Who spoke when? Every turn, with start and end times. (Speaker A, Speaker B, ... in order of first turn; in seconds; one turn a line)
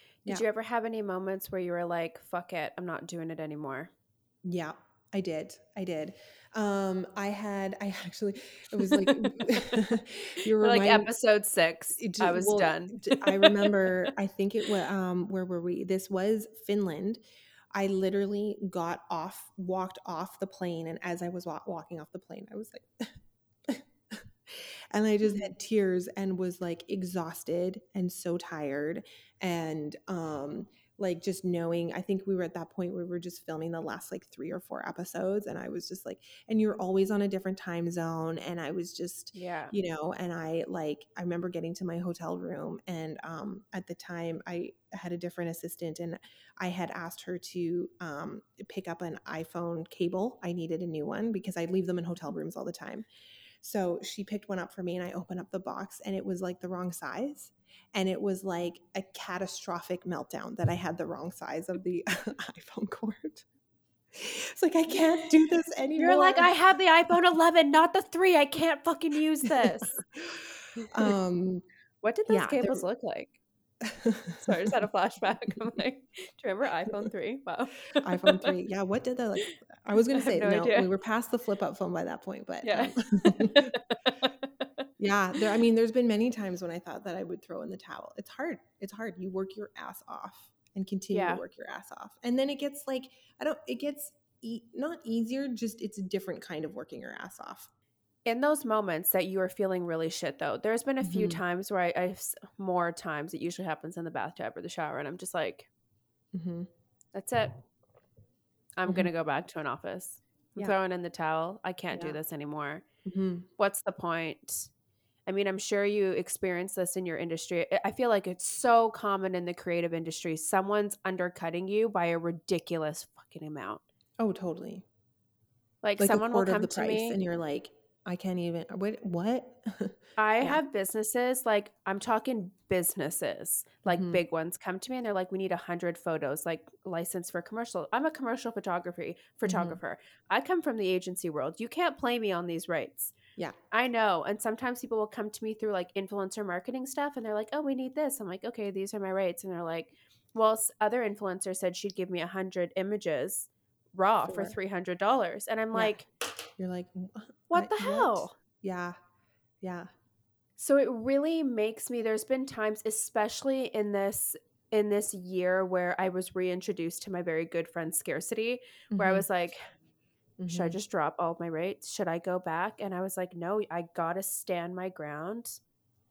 Speaker A: 0.3-3.9
Speaker B: 4.4-11.1
Speaker A: 8.8-9.4
Speaker A: 10.6-14.0
Speaker B: 12.0-17.2
Speaker B: 17.7-23.1
Speaker B: 23.7-53.0
Speaker A: 25.2-25.5
Speaker A: 39.3-39.7
Speaker B: 53.6-63.5
Speaker B: 64.1-66.5
Speaker A: 64.9-65.2
Speaker A: 66.0-70.0
Speaker B: 69.4-71.6
Speaker A: 70.8-71.2
Speaker A: 72.0-73.4
Speaker B: 72.3-72.8
Speaker B: 73.8-74.7
Speaker A: 74.4-78.5
Speaker B: 78.0-83.8
Speaker A: 79.4-80.9
Speaker A: 82.6-84.8
Speaker B: 85.0-97.7
Speaker A: 91.1-91.4
Speaker A: 98.3-105.7
Speaker B: 101.0-101.4
Speaker B: 106.3-106.7
Speaker A: 107.1-107.5
Speaker A: 108.8-112.8
Speaker B: 108.9-109.1
Speaker B: 111.9-112.2
Speaker B: 113.0-113.5
Speaker A: 113.6-114.7
Speaker A: 115.3-123.8
Speaker B: 124.2-124.8
Speaker A: 125.8-127.2
Speaker B: 126.0-130.6
Speaker A: 130.2-143.2
Speaker B: 133.9-134.2
Speaker B: 139.4-139.8
Speaker A: 143.7-156.1
Speaker B: 154.2-154.6
Speaker B: 155.7-156.0
Speaker B: 156.6-159.0
Speaker A: 157.5-158.3
Speaker B: 159.6-159.9
Speaker A: 160.6-169.6
Speaker B: 168.9-169.3
Speaker B: 170.4-170.8
Speaker A: 170.5-175.6